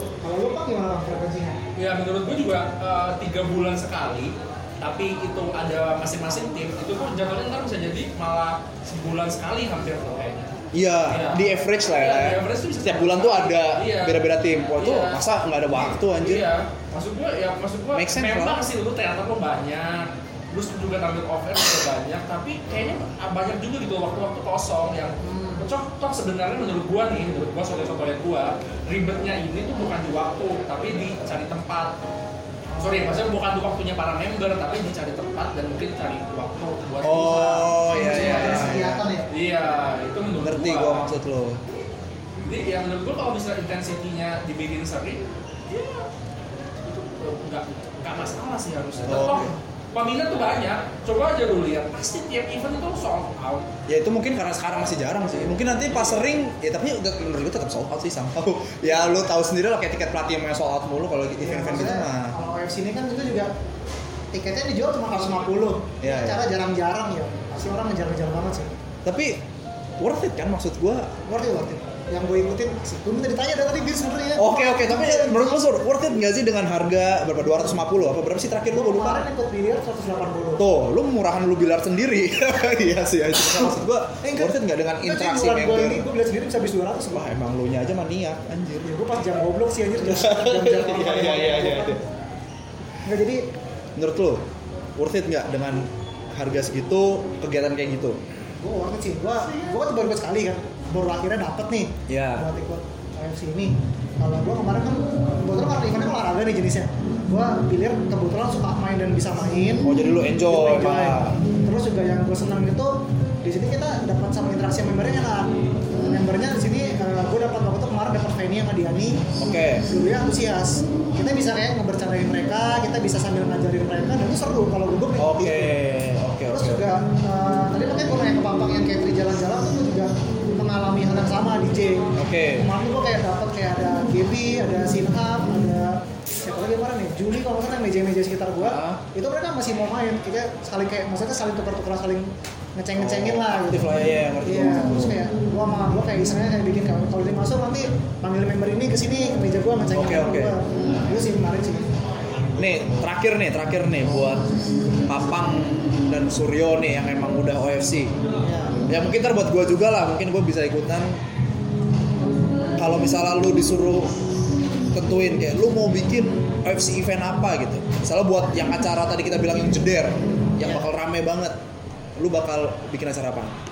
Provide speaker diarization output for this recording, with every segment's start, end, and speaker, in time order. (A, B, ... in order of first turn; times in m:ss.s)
0:00.2-0:01.6 A
0:01.8-0:31.9 B
0:10.7-0:16.5 C
0:17.9-0:18.6 C
0:25.2-0:25.6 A
0:32.7-0:33.3 A
0:32.8-0:38.8 B
0:37.0-0:39.0 C
0:37.9-0:39.3 A
0:39.3-0:41.1 B
0:40.4-0:41.6 C
0:42.4-0:46.1 B
0:46.8-0:53.7 B
0:49.0-0:49.5 C
0:53.9-1:02.3 C
0:55.9-0:56.2 B
1:01.4-1:03.5 A
1:04.3-1:08.7 A
1:06.0-1:06.4 C
1:09.0-1:09.4 C
1:10.0-1:11.1 C
1:11.2-1:15.6 A
1:14.4-1:19.2 C
1:18.7-1:20.6 A
1:20.6-1:26.1 C
1:24.2-1:27.3 A
1:27.1-1:28.9 C
1:28.8-1:32.0 A
1:30.0-1:32.0 C
1:33.0-1:33.4 A
1:34.0-1:34.4 C
1:35.0-1:38.2 C
1:38.6-1:49.9 A
1:42.1-1:42.4 C
1:49.8-1:51.4 C
1:50.4-2:05.8 A
1:59.4-1:59.8 C
2:05.2-2:06.8 C
2:06.5-2:31.9 A
2:12.2-2:12.7 C
2:18.6-2:19.0 C
2:23.0-2:25.2 C
2:29.9-2:30.5 C
2:32.6-2:34.4 C
2:35.1-2:38.1 C
2:38.4-2:38.8 A
2:38.9-2:41.2 C
2:42.8-2:44.1 C
2:44.9-2:51.6 C
2:50.6-2:50.9 A
2:52.2-2:53.6 C